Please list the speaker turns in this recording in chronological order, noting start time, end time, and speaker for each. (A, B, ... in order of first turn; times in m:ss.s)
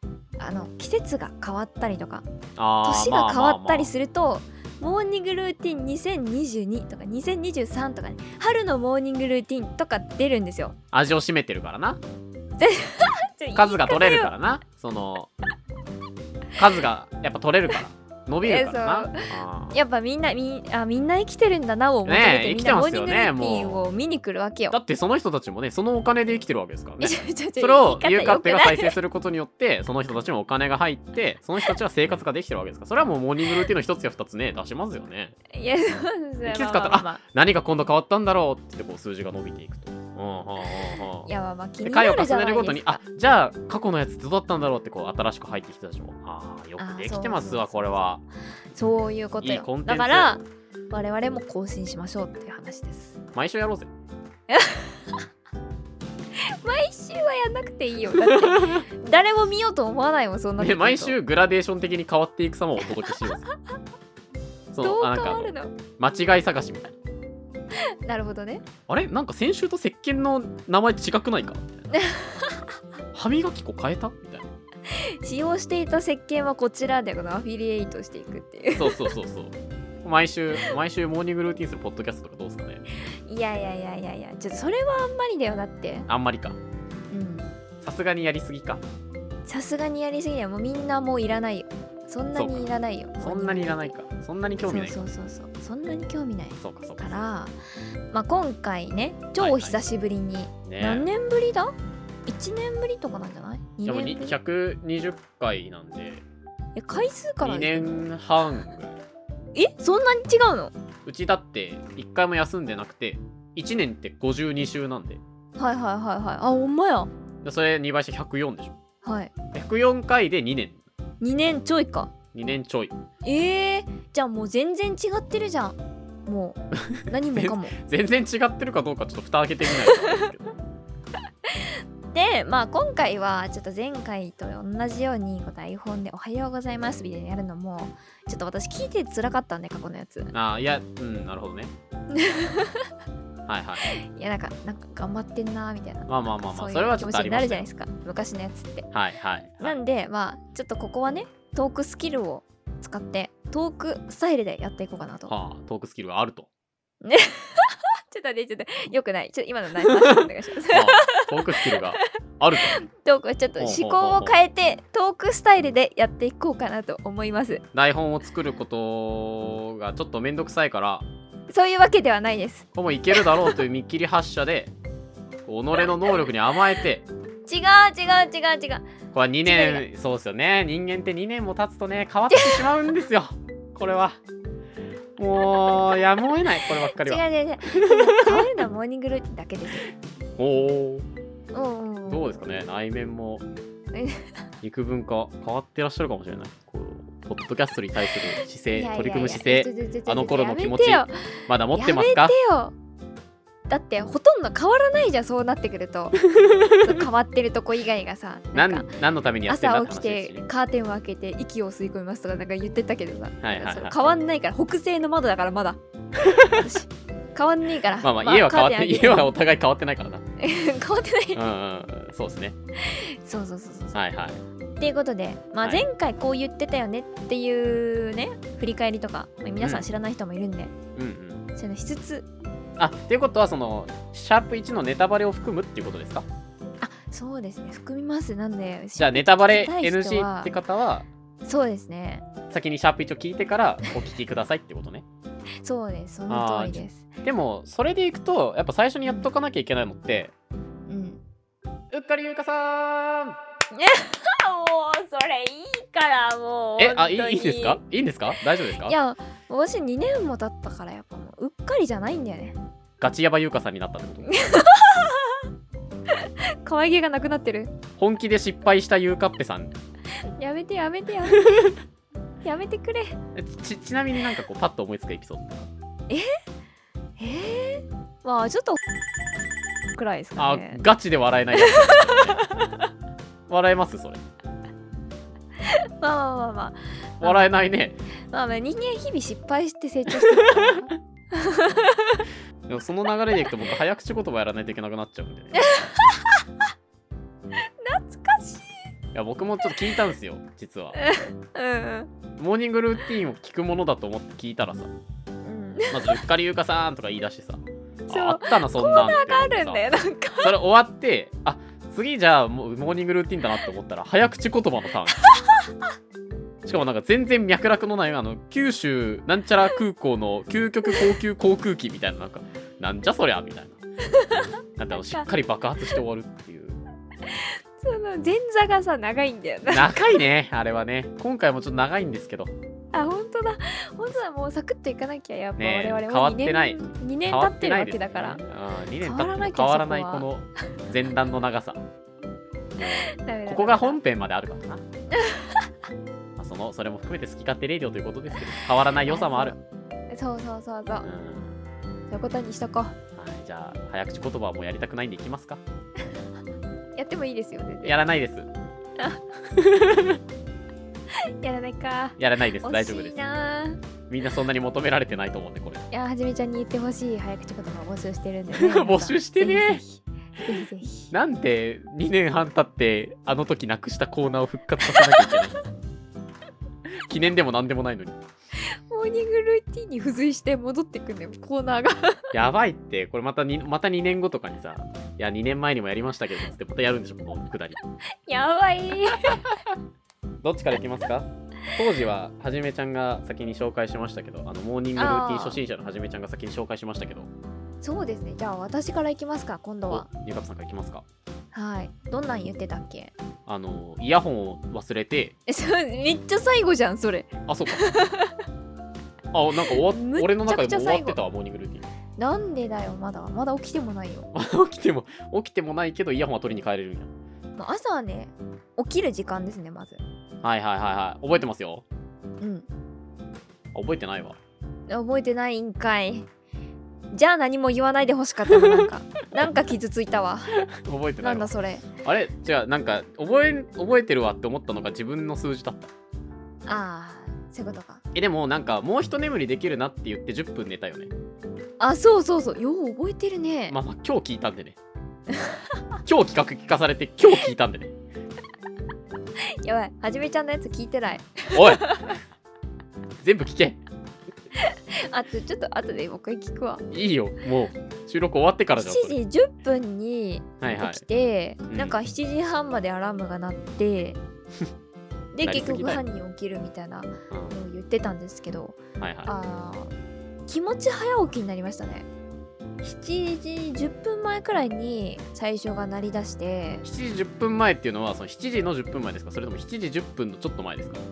0:00.4-0:02.3 A
0:02.6-0:03.9 B
0:02.8-0:10.8 A
0:10.9-0:12.0 B
0:12.6-0:14.3 A
0:13.6-0:15.3 B
0:16.6-0:19.8 B
0:18.4-0:24.8 A
0:22.0-0:23.8 B
0:24.7-0:35.4 B
0:27.0-0:29.0 A
0:35.5-0:37.2 A
0:36.4-0:41.3 B
0:41.0-0:43.0 A
0:41.8-0:48.2 B
0:46.8-0:48.1 A
0:48.7-0:53.2 A
0:49.4-0:50.4 B
0:53.4-0:53.9 B
0:54.5-0:55.2 A
0:56.4-1:01.2 A
0:58.2-0:58.8 B
1:00.6-1:03.5 B
1:04.7-1:06.9 B
1:04.8-1:05.7 A
1:08.0-1:08.6 A
1:08.9-1:11.9 B
1:11.9-1:12.6 A
1:13.1-1:14.5 B
1:14.9-1:19.1 A
1:18.8-1:22.8 B
1:23.3-1:26.1 A
1:26.1-1:26.6 B
1:27.1-1:27.5 A
1:27.8-1:28.8 B
1:29.5-1:33.9 A
1:32.4-1:32.7 B
1:33.2-1:35.0 B
1:34.7-1:37.6 A
1:36.6-1:37.2 B
1:38.1-1:41.7 A
1:39.4-1:39.8 B
1:40.6-1:41.1 B
1:42.3-1:44.4 A
1:43.9-1:46.2 B
1:46.8-1:48.0 A
1:47.4-1:49.0 B
1:49.6-1:50.7 A
1:51.0-1:55.2 B
1:55.6-1:57.1 A
1:57.4-1:58.8 B
1:59.0-1:59.3 A
1:59.5-2:00.8 B
2:01.2-2:02.1 A
2:02.3-2:02.9 B
2:03.2-2:07.8 A
2:06.9-2:10.5 B
2:11.5-2:20.3 A
2:20.3-2:21.7 B
2:22.1-2:22.9 A
2:23.5-2:23.9 B
2:23.8-2:28.9 A
2:26.1-2:27.7 B
2:28.9-2:29.8 B
2:29.6-2:35.3 A
2:35.3-2:36.5 B
2:37.0-2:41.8 A
2:39.8-2:42.8 B
2:42.6-2:47.6 A
2:43.6-2:44.3 B
2:47.7-2:51.1 B
2:51.5-2:53.6 A
2:52.8-2:54.7 B
2:55.4-2:57.1 B
2:57.5-2:58.9 A
2:59.1-3:04.2 B
2:59.5-2:59.8 A
3:02.3-3:02.6 A
3:05.2-3:08.5 B
3:06.9-3:09.9 A
3:10.4-3:11.1 B
3:11.5-3:12.4 A
3:12.1-3:13.4 B
3:13.9-3:14.3 A
3:14.6-3:22.4 B
3:18.7-3:22.7 A
3:23.7-3:28.9 A
3:26.2-3:27.0 B
3:28.5-3:30.4 B
3:29.5-3:35.8 A
3:33.4-3:34.0 B
3:36.2-3:36.7 B
3:36.4-3:39.3 A
3:38.0-3:40.2 B
3:40.4-3:41.4 A
3:41.3-3:42.6 B
3:42.8-3:44.0 A
3:43.9-3:44.4 B
3:44.8-3:50.7 A
3:49.6-3:49.9 B
3:51.0-3:51.5 B
3:51.6-3:52.3 A
3:52.8-3:56.3 B
3:56.8-4:00.5 A
3:59.0-4:01.1 B
4:01.4-4:02.2 A
4:02.5-4:05.0 B
4:05.6-4:07.1 A
4:06.3-4:10.3 B
4:10.9-4:11.2 A
4:11.9-4:13.4 B
4:13.7-4:17.8 A
4:16.8-4:19.0 B
4:18.8-4:22.6 A
4:23.0-4:24.5 B
4:24.3-4:25.4 A
4:26.1-4:27.7 A
4:28.0-4:29.8 B
4:30.4-4:31.7 A
4:32.4-4:33.2 A
4:33.4-4:35.7 B
4:36.1-4:36.4 A
4:37.2-4:38.8 A
4:40.0-4:40.8 A
4:40.4-4:42.5 B
4:41.6-4:42.8 A
4:43.5-4:44.2 B
4:45.7-4:47.5 A
4:47.2-4:48.0 B
4:48.3-4:52.2 A
4:50.2-4:50.8 B
4:52.7-4:55.7 B
4:55.6-4:56.4 A
4:57.6-4:58.7 A
4:59.1-5:01.0 B
5:01.0-5:02.1 A
5:02.4-5:04.9 B
5:05.4-5:06.2 A
5:05.9-5:09.8 B
5:08.1-5:10.5 A
5:10.4-5:15.2 B
5:15.3-5:15.7 A
5:16.6-5:23.8 B
5:24.1-5:25.3 A
5:24.8-5:26.8 B
5:27.3-5:30.1 A
5:29.7-5:32.5 B
5:32.9-5:38.4 A
5:35.6-5:41.8 B
5:39.0-5:40.3 A
5:42.7-5:44.8 B
5:42.8-5:44.0 A
5:45.1-5:45.7 A
5:46.4-5:49.6 B
5:49.0-5:49.6 A
5:50.1-5:51.1 A
5:51.0-5:51.6 B
5:52.1-5:53.0 A
5:53.2-5:55.6 B
5:57.0-5:58.0 A
5:57.8-5:58.5 B
5:59.5-6:00.2 B
6:01.1-6:03.8 A
6:02.2-6:03.2 B
6:04.1-6:05.9 B
6:05.9-6:11.1 A
6:08.5-6:09.8 B
6:11.1-6:15.6 B
6:17.0-6:18.2 B
6:18.6-6:22.3 A
6:22.3-6:27.8 B
6:28.3-6:29.5 A
6:30.4-6:37.3 B
6:35.0-6:35.6 A
6:37.8-6:40.1 A
6:39.9-6:41.0 B
6:41.5-6:43.1 A
6:43.5-6:45.4 B
6:45.5-6:48.4 A
6:47.5-6:47.9 B
6:49.3-6:51.9 B
6:49.7-6:51.2 A
6:52.2-6:54.3 A
6:54.3-6:57.1 B
6:57.6-7:00.0 A
7:00.4-7:01.8 B
7:02.4-7:02.7 A
7:03.7-7:04.4 B
7:04.9-7:06.3 A
7:07.1-7:10.6 A
7:10.7-7:15.9 B
7:11.2-7:11.9 A
7:16.7-7:18.0 A
7:18.1-7:21.1 B
7:21.8-7:23.8 A
7:23.7-7:24.8 B
7:26.1-7:27.9 B
7:29.6-7:32.2 A
7:31.5-7:31.9 B
7:33.2-7:33.8 B
7:34.6-7:36.8 A
7:36.9-7:39.2 B
7:38.8-7:44.2 A
7:40.6-7:41.0 B
7:41.7-7:42.0 B
7:45.3-7:49.9 A
7:45.4-7:46.0 B
7:47.3-7:47.6 B
7:49.0-7:49.3 B
7:50.5-7:52.1 A
7:52.8-7:56.8 A
7:56.8-8:01.0 B